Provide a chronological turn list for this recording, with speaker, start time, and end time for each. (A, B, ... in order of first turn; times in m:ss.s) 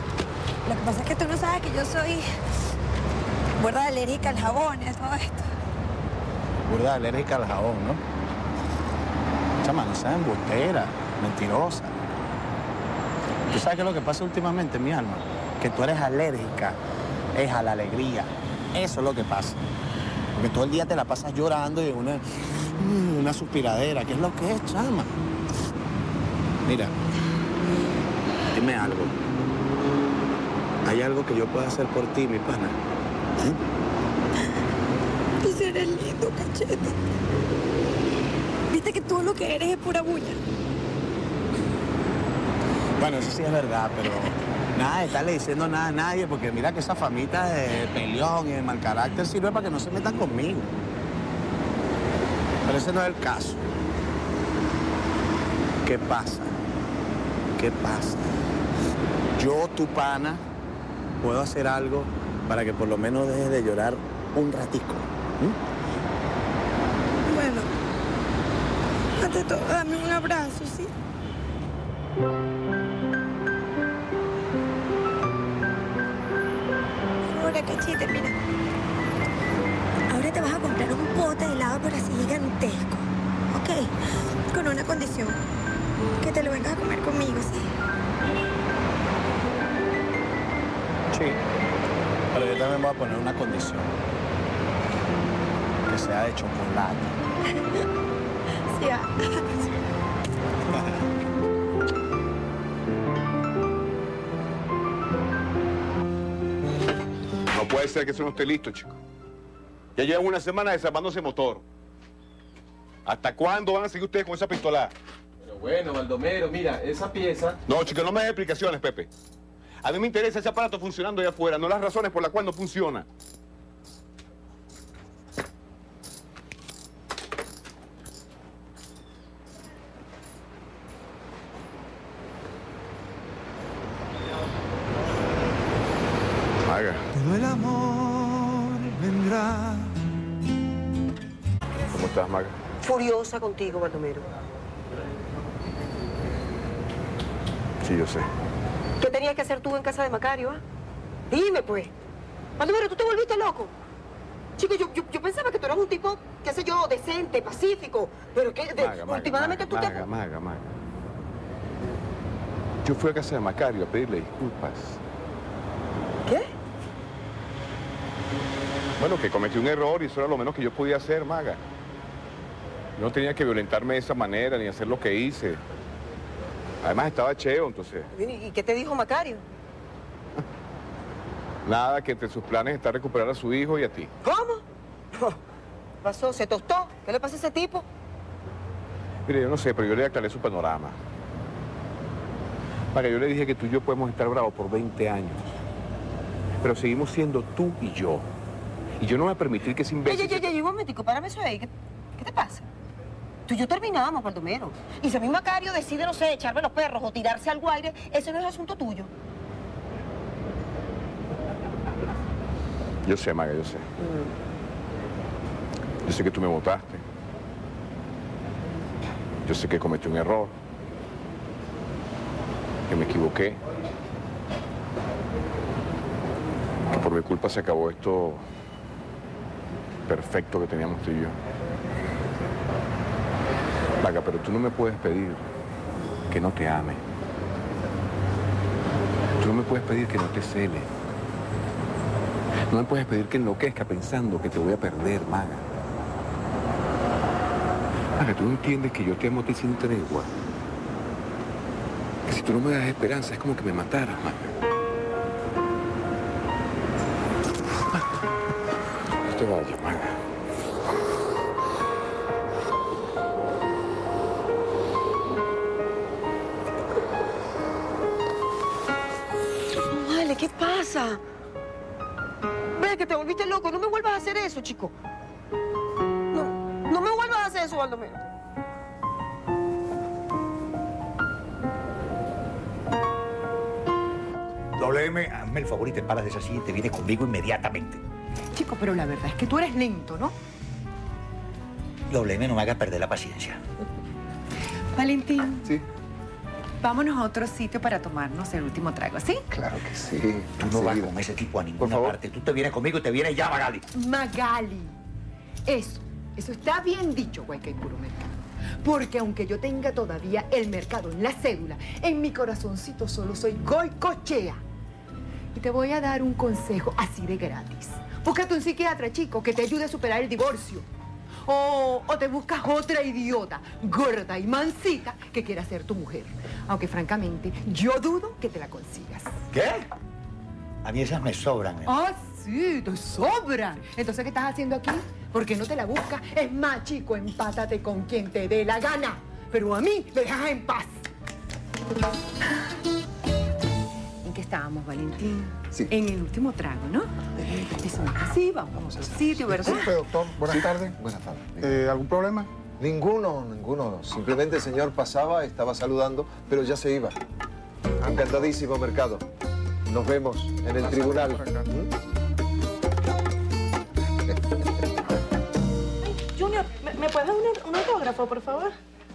0:00.6-0:02.2 A
0:03.6-0:05.4 A
0:06.7-0:08.0 B
0:09.6-0:11.9 B
0:13.5-0:16.8 B
0:17.3-0:19.6 B
0:20.4-0:25.1 B
0:26.6-0:26.9 B
0:28.5-0:29.1 B
0:30.8-0:32.7 B
0:35.4-0:37.0 A
0:38.7-0:40.4 A
0:43.0-0:50.7 B
0:52.6-0:53.6 B
0:55.8-0:56.5 B
0:57.6-0:58.4 B
0:59.4-1:00.4 B
1:01.2-1:05.6 B
1:07.2-1:07.7 A
1:09.2-1:10.9 A
1:17.2-1:18.4 A
1:20.1-1:23.8 A
1:24.5-1:25.4 A
1:26.2-1:27.6 A
1:31.1-1:31.4 B
1:32.3-1:33.9 B
1:35.9-1:37.1 B
1:38.7-1:39.4 A
1:47.5-1:49.0 C
1:50.0-1:51.6 C
1:53.0-1:54.9 C
1:55.5-1:57.6 D
1:57.6-1:59.1 C
1:59.8-2:03.0 C
2:16.6-2:17.0 C
2:21.9-2:22.5 C
2:22.8-2:24.2 E
2:27.8-2:28.3 C
2:29.0-2:30.5 E
2:31.3-2:31.9 E
2:32.6-2:33.7 E
2:34.6-2:40.0 E
2:38.8-2:40.7 C
2:42.8-2:45.0 C
2:49.0-2:51.6 C
2:53.0-2:55.6 C
2:56.8-2:58.1 C
2:58.1-2:59.4 E
3:01.6-3:04.1 C
3:04.2-3:04.6 E
3:06.0-3:07.8 E
3:09.2-3:11.0 C
3:12.9-3:15.4 C
3:16.6-3:18.3 C
3:19.0-3:20.5 C
3:20.1-3:21.7 E
3:22.2-3:22.6 E
3:23.5-3:29.1 E
3:33.0-3:33.9 C
3:36.0-3:37.0 C
3:39.4-3:40.5 C
3:42.9-3:43.6 C
3:47.0-3:48.4 C
3:50.1-3:51.4 C
3:54.0-3:55.4 C
3:56.3-3:57.0 C
3:59.4-4:00.9 C
4:02.7-4:05.6 C
4:08.2-4:10.3 C
4:12.2-4:14.5 C
4:19.2-4:20.2 C
4:29.9-4:31.2 E
4:32.8-4:34.9 E
4:36.3-4:38.2 E
4:44.8-4:48.0 F
4:48.5-4:50.4 G
4:52.1-4:53.6 F
4:54.9-4:55.7 G
4:56.8-4:59.4 G
4:59.5-5:01.1 D
5:00.6-5:03.8 F
5:01.8-5:02.2 D
5:03.9-5:05.0 G
5:05.6-5:14.6 G
5:15.5-5:20.8 G
5:21.4-5:29.3 G
5:29.5-5:29.8 F
5:30.8-5:31.9 F
5:31.8-5:41.0 G
5:44.2-5:50.0 G
5:49.5-5:57.2 D
5:58.0-5:59.2 D
5:59.9-6:01.9 D
6:06.0-6:08.7 H